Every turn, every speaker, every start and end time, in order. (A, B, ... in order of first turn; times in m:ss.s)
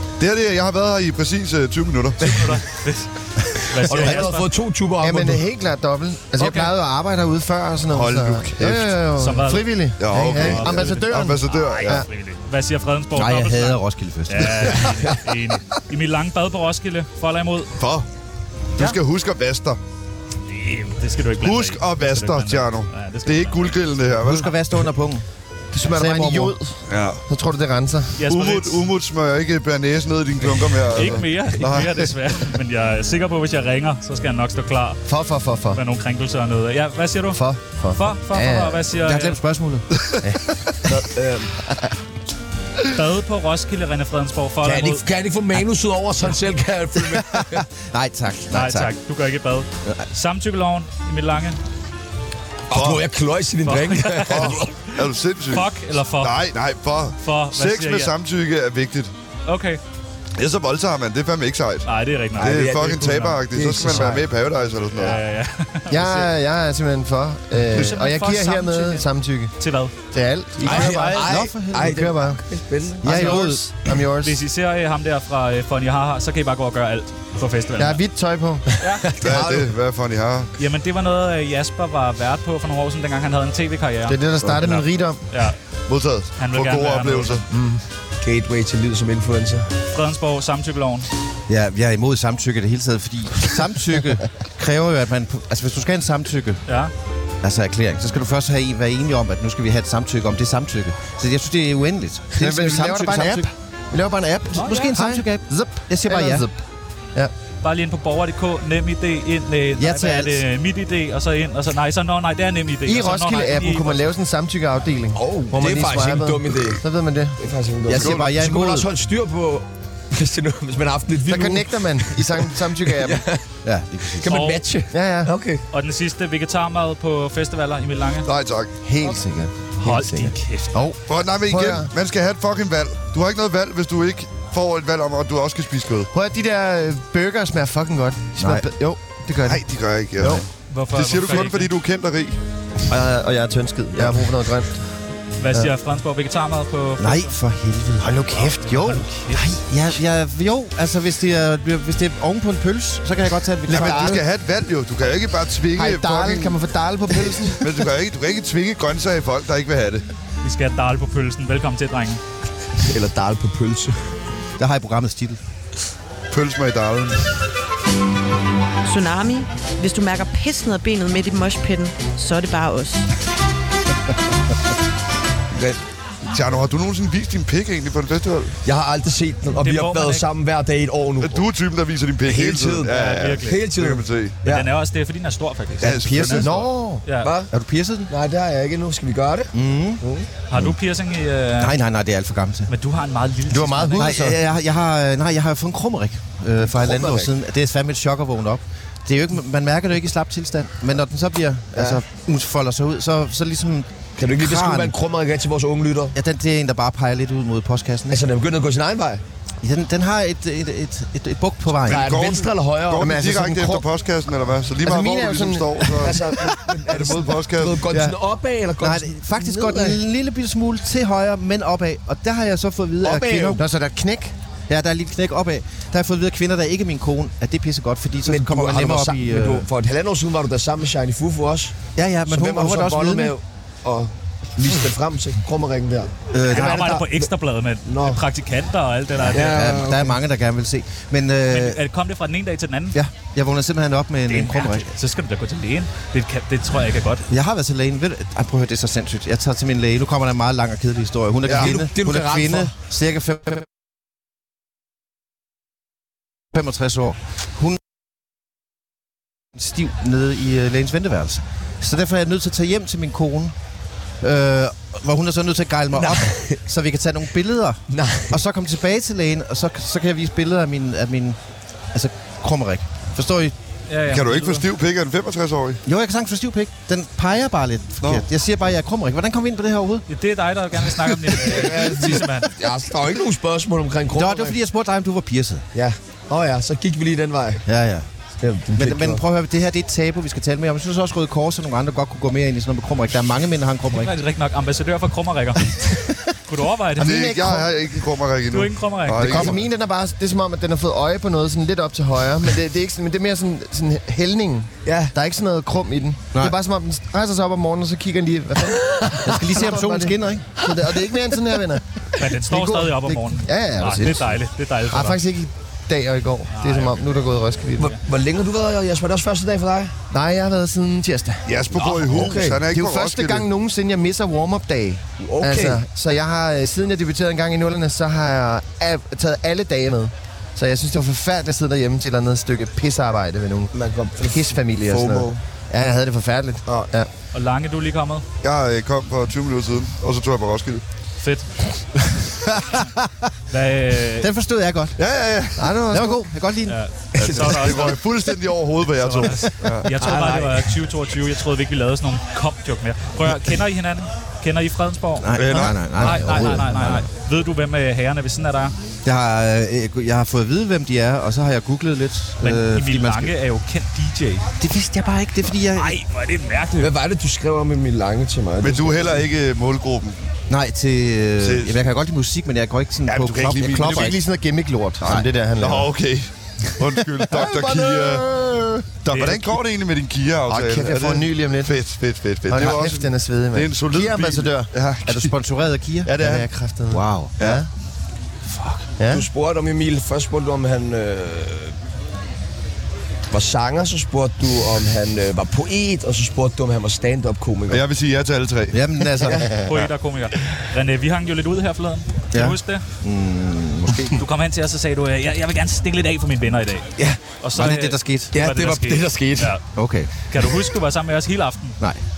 0:00.2-0:02.5 A
0:02.2-0:04.5 B
0:03.5-0:05.4 C
0:05.0-0:12.0 D
0:06.4-0:06.7 B
0:07.9-0:09.0 A
0:09.2-0:17.7 B
0:10.0-0:12.0 A
0:13.1-0:14.9 E
0:17.8-0:18.1 A
0:18.8-0:19.8 A
0:20.5-0:24.1 B
0:21.4-0:24.5 A
0:24.2-0:25.2 E
0:25.7-0:28.2 D
0:25.8-0:26.6 E
0:26.9-0:27.2 A
0:28.2-0:28.8 B
0:28.3-0:32.0 A
0:30.9-0:35.0 B
0:35.1-0:35.8 D
0:35.7-0:39.4 B
0:37.3-0:38.9 D
0:39.0-0:40.5 E
0:40.0-0:40.2 A
0:40.8-0:41.5 C
0:42.9-0:45.0 B
0:44.6-0:47.7 C
0:47.1-0:48.9 E
0:48.5-0:51.6 B
0:52.7-0:54.7 C
0:52.7-0:53.0 A
0:53.6-0:56.4 B
0:54.3-0:59.1 A
0:57.2-0:58.1 B
0:59.4-0:59.8 B
1:00.4-1:05.2 A
1:01.8-1:03.3 B
1:02.4-1:03.3 C
1:03.6-1:04.1 D
1:04.9-1:06.3 B
1:05.9-1:09.5 D
1:07.7-1:09.9 B
1:10.1-1:12.4 D
1:10.6-1:11.4 B
1:10.6-1:13.4 C
1:11.1-1:12.0 E
1:13.0-1:13.7 E
1:13.0-1:14.4 D
1:13.0-1:13.6 B
1:14.2-1:18.0 B
1:17.8-1:18.7 D
1:18.8-1:19.2 B
1:19.1-1:19.7 C
1:19.2-1:20.5 A
1:20.6-1:25.6 B
1:24.1-1:25.2 D
1:25.9-1:27.4 A
1:26.4-1:27.4 B
1:27.5-1:29.7 C
1:29.9-1:31.1 B
1:31.5-1:36.6 E
1:36.7-1:36.9 B
1:37.4-1:43.5 E
1:42.3-1:46.6 D
1:44.5-1:46.5 E
1:44.5-1:44.9 B
1:47.6-1:54.0 B
1:49.8-1:50.4 E
1:52.8-1:57.4 D
1:55.1-1:56.8 C
1:57.4-2:03.4 C
1:57.9-1:58.9 E
1:58.0-1:58.3 A
2:01.3-2:03.2 D
2:03.6-2:04.3 E
2:04.1-2:05.6 C
2:04.2-2:04.6 B
2:04.9-2:05.3 D
2:05.7-2:08.3 B
2:08.2-2:08.7 A
2:08.8-2:11.0 D
2:09.8-2:10.7 B
2:11.1-2:16.1 A
2:11.5-2:11.9 D
2:16.1-2:19.6 D
2:18.4-2:18.7 E
2:19.4-2:22.4 A
2:20.2-2:20.4 D
2:20.7-2:21.7 B
2:22.9-2:24.8 D
2:25.4-2:27.3 B
2:27.0-2:28.4 E
2:28.0-2:29.0 D
2:28.6-2:29.5 B
2:29.3-2:34.2 E
2:33.7-2:34.2 D
2:33.7-2:36.6 A
2:35.7-2:37.8 D
2:37.6-2:40.0 A
2:40.4-2:42.2 B
2:42.8-2:44.0 C
2:44.6-2:45.4 E
2:46.3-2:47.2 A
2:48.8-2:53.1 F
2:56.2-2:58.6 A
2:58.6-3:01.5 C
2:59.6-3:00.2 B
3:01.2-3:04.4 A
3:02.2-3:04.7 C
3:02.9-3:03.6 B
3:04.4-3:07.3 B
3:05.8-3:06.5 A
3:05.8-3:06.5 E
3:06.4-3:07.0 D
3:07.2-3:07.5 C
3:07.5-3:08.1 E
3:08.1-3:10.3 C
3:09.5-3:10.0 E
3:10.5-3:11.8 B
3:11.6-3:12.7 E
3:12.7-3:14.1 B
3:13.5-3:14.4 D
3:14.0-3:25.0 E
3:16.7-3:17.3 C
3:21.8-3:22.0 C
3:24.2-3:26.2 C
3:26.1-3:28.3 E
3:28.1-3:29.2 C
3:29.6-3:32.1 E
3:31.8-3:36.3 A
3:31.8-3:33.1 C
3:33.0-3:33.8 D
3:34.8-3:36.3 D
3:36.0-3:40.0 C
3:36.8-3:37.9 A
3:37.9-3:38.2 E
3:38.8-3:43.6 E
3:43.0-3:43.6 C
3:43.5-3:44.3 D
3:44.7-3:49.7 E
3:48.2-3:51.7 C
3:52.0-3:53.3 E
3:52.3-3:57.2 C
3:56.3-3:57.0 E
3:56.4-3:59.6 B
3:57.8-3:58.2 C
3:59.3-4:01.8 E
3:59.3-4:00.2 C
4:01.5-4:02.9 B
4:02.9-4:04.9 E
4:04.3-4:07.2 B
4:07.3-4:13.7 E
4:11.4-4:12.7 C
4:11.5-4:11.8 A
4:16.5-4:17.8 E
4:19.5-4:23.5 E
4:24.2-4:31.4 E
4:25.9-4:26.6 C
4:27.9-4:28.4 C
4:31.9-4:33.5 E
4:33.9-4:34.6 B
4:34.1-4:35.8 A
4:35.8-4:40.0 E
4:40.1-4:42.5 B
4:41.4-4:44.6 C
4:44.1-4:45.6 E
4:45.7-4:47.6 C
4:47.6-4:48.1 E
4:48.4-4:49.2 C
4:48.7-4:54.1 E
4:53.9-4:55.8 B
4:56.5-4:57.3 B
4:57.0-4:57.7 D
4:57.0-4:59.6 A
4:58.5-4:59.5 B
4:59.2-4:59.6 E
4:59.2-5:14.4 D
5:04.8-5:05.1 C
5:09.2-5:10.5 E
5:12.2-5:15.2 B
5:14.9-5:17.9 D
5:16.5-5:17.0 B
5:17.8-5:19.9 C
5:20.1-5:33.7 D
5:21.4-5:23.5 A
5:22.0-5:22.6 C
5:25.2-5:25.8 C
5:33.7-5:35.3 C
5:34.2-5:37.1 D
5:37.3-5:38.2 B
5:38.4-5:40.8 A
5:41.2-5:41.5 B
5:42.4-5:43.3 E
5:43.5-5:44.3 B
5:44.2-5:45.0 E
5:45.0-5:45.7 A
5:45.6-5:46.2 D
5:45.9-5:46.8 E
5:46.7-5:48.0 B
5:47.2-5:47.8 C
5:47.2-5:50.0 A
5:49.0-5:58.7 B
5:50.0-5:50.6 C
5:55.2-5:57.0 E
5:55.3-5:55.8 A
5:59.0-6:03.3 E
6:02.4-6:04.5 B
6:04.6-6:06.0 E
6:05.7-6:06.9 B
6:06.8-6:09.3 C
6:08.6-6:10.2 A
6:10.5-6:14.2 E
6:11.4-6:11.8 A
6:13.1-6:14.2 A
6:13.7-6:15.9 D
6:15.0-6:18.2 A
6:17.3-6:18.9 D
6:19.0-6:25.3 A
6:19.1-6:19.6 B
6:20.5-6:21.8 D
6:22.5-6:24.7 D
6:25.0-6:26.1 E
6:26.0-6:26.5 A
6:26.1-6:27.7 D
6:26.9-6:27.4 E
6:28.5-6:28.8 E
6:29.0-6:29.2 D
6:29.1-6:31.7 C
6:33.3-6:37.8 C
6:37.7-6:38.8 A
6:38.7-6:39.8 E
6:39.2-6:39.5 C
6:39.6-6:42.8 B
6:42.3-6:44.2 E
6:44.1-6:49.6 B
6:47.5-6:48.3 E
6:48.3-6:49.5 C
6:49.7-6:50.2 E
6:50.2-6:51.8 B